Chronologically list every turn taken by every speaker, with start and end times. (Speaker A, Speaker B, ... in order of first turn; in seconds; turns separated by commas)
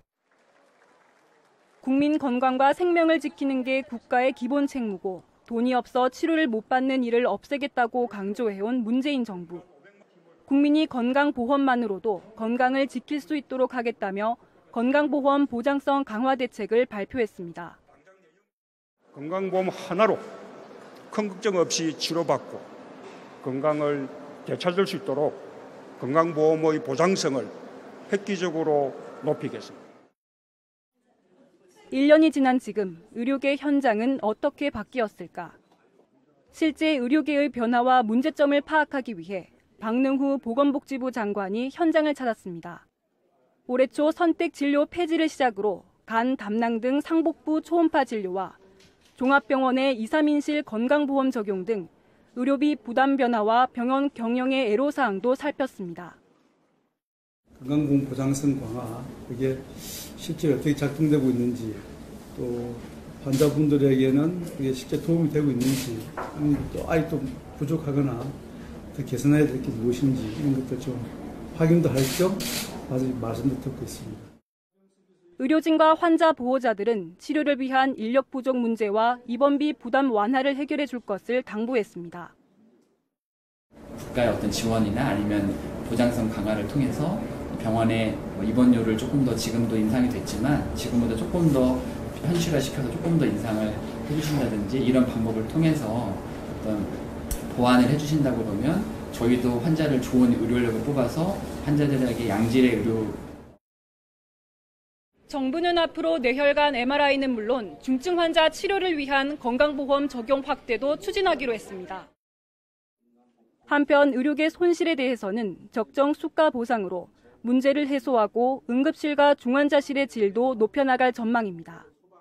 Speaker A: 1.8-9.6, Speaker A: 10.5-17.8, Speaker B: 19.1-20.2, Speaker B: 21.1-22.6, Speaker B: 23.4-25.4, Speaker B: 26.0-27.5, Speaker B: 28.1-29.8, Speaker A: 31.9-35.5, Speaker A: 36.5-42.9, Speaker A: 43.7-48.6, Speaker A: 49.2-56.1, Speaker C: 57.5-61.8, Speaker C: 62.3-68.3, Speaker C: 68.9-74.3, Speaker A: 75.4-82.3, Speaker D: 83.9-96.9, Speaker D: 97.5-103.2, Speaker A: 105.3-112.1, Speaker A: 113.7-121.9